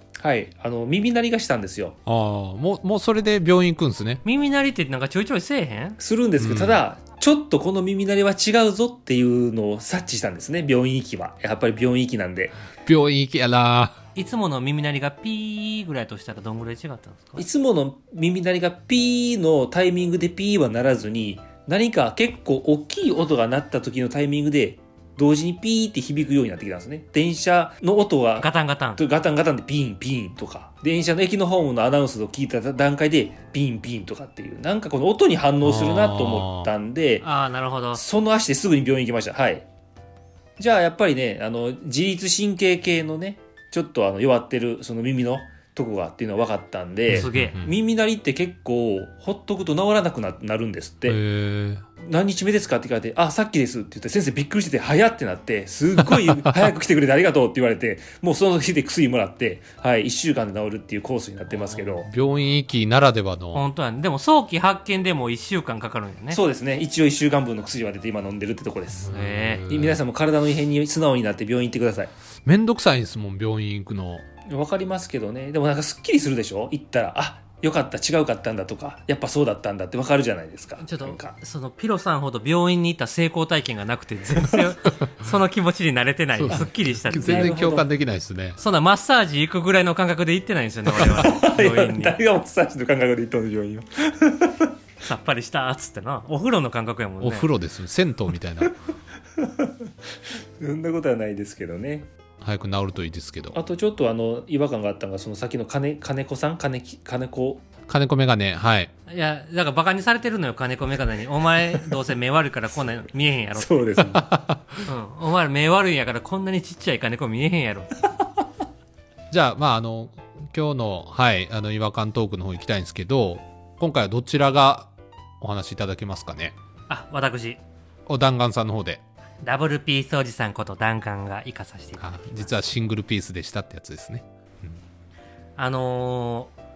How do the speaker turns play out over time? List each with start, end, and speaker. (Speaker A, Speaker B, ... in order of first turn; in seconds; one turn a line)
Speaker A: 0.2-2.0
Speaker B: 2.1-4.2
Speaker C: 4.2-6.0
Speaker A: 6.0-12.6
Speaker B: 6.4-6.8
Speaker B: 12.8-14.0
Speaker C: 14.2-17.4
Speaker A: 17.4-37.3
Speaker C: 28.4-29.0
Speaker B: 35.6-36.7
Speaker C: 37.2-38.0
Speaker A: 38.0-39.7
Speaker A: 40.6-51.2
Speaker B: 47.1-47.7
Speaker C: 47.1-47.6
Speaker B: 51.1-51.8
Speaker A: 52.0-62.1
Speaker B: 61.7-63.6
Speaker C: 63.5-66.4
Speaker A: 66.3-69.1
Speaker B: 69.0-70.0
Speaker C: 69.1-69.7
Speaker A: 69.7-72.1
Speaker B: 72.5-74.2
Speaker A: 74.5-81.3
Speaker C: 80.8-87.5
Speaker B: 86.3-88.6
Speaker A: 87.1-87.9
Speaker C: 88.6-92.2
Speaker A: 90.9-94.7
Speaker C: 95.0-97.5
Speaker B: 97.2-98.7
Speaker A: 99.4-99.7
Speaker A: 100.6-102.1
Speaker B: 102.4-103.6
Speaker A: 103.5-107.6
Speaker B: 107.9-108.9
Speaker C: 109.1-113.8
Speaker A: 113.6-114.3
Speaker B: 114.0-114.8
Speaker C: 114.8-118.0
Speaker B: 119.3-126.5
Speaker C: 126.9-127.6
Speaker B: 128.1-129.0
Speaker C: 129.4-132.6
Speaker B: 132.0-134.8
Speaker C: 135.6-136.5